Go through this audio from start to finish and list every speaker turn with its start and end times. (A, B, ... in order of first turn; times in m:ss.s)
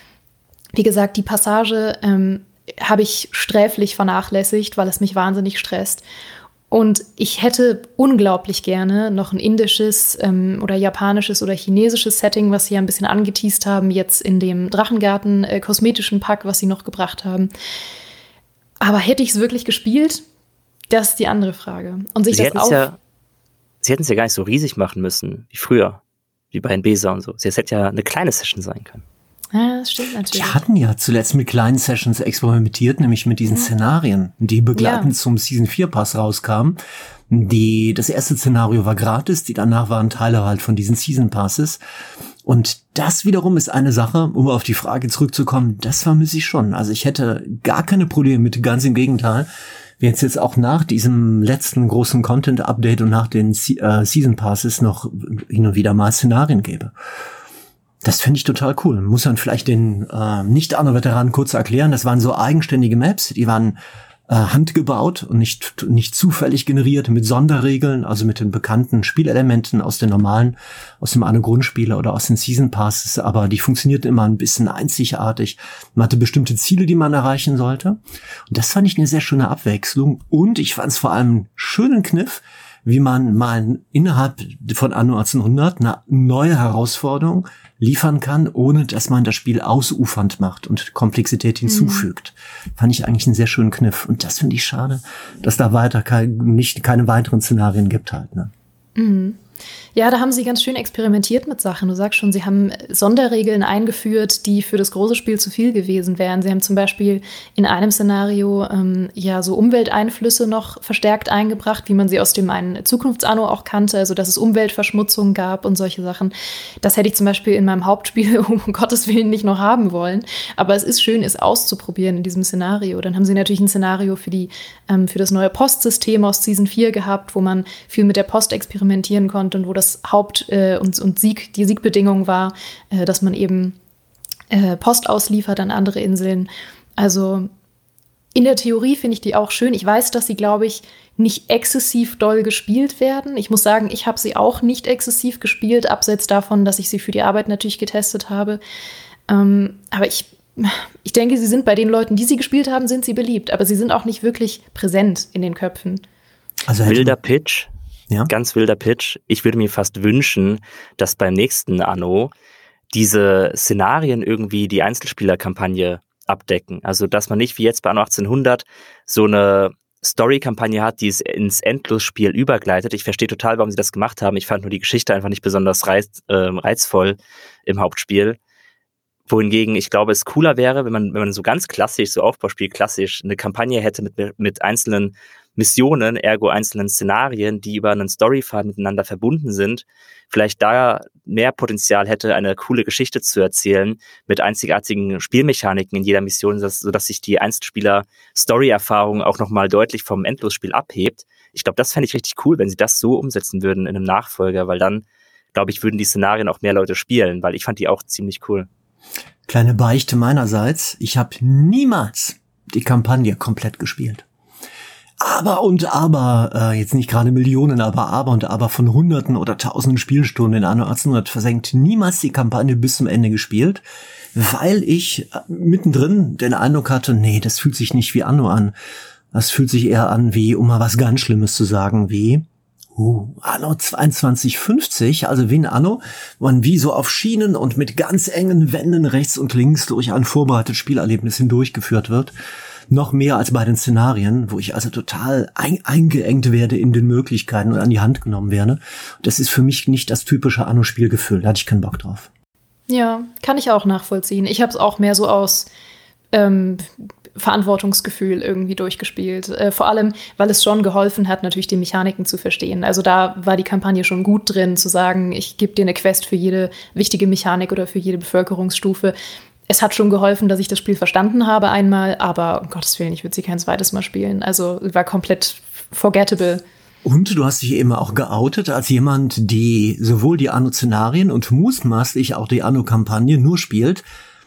0:00.8-0:06.0 A
0:06.7-0:17.5 A
0:18.8-0:20.2 A
0:20.9-0:22.9 A
0:22.3-0:23.0 B
0:23.8-0:26.0 B
0:26.5-0:29.0 B
0:29.5-0:30.6 A
0:30.3-0:36.8 C
0:34.8-0:35.1 A
0:37.3-0:41.8 C
0:42.4-0:49.5 C
0:50.0-0:56.9 C
0:58.0-1:03.8 C
1:04.3-1:38.5 C
1:31.7-1:32.1 A
1:39.0-1:39.4 A
1:40.0-2:13.8 A
2:14.5-2:17.5 A
2:18.4-2:28.6 A
2:29.3-2:36.0 A
2:36.7-2:37.2 C
2:36.9-2:37.7 B
2:38.3-2:42.3 B
2:42.9-2:58.4 B
2:59.3-3:28.7 B
3:29.5-3:34.3 C
3:35.2-3:43.8 C
3:44.4-3:48.7 C
3:49.3-4:02.3 C
4:02.9-4:12.3 C
4:12.9-4:15.7 A
4:16.3-4:29.2 A
4:29.7-4:36.6 A
4:37.0-4:44.0 C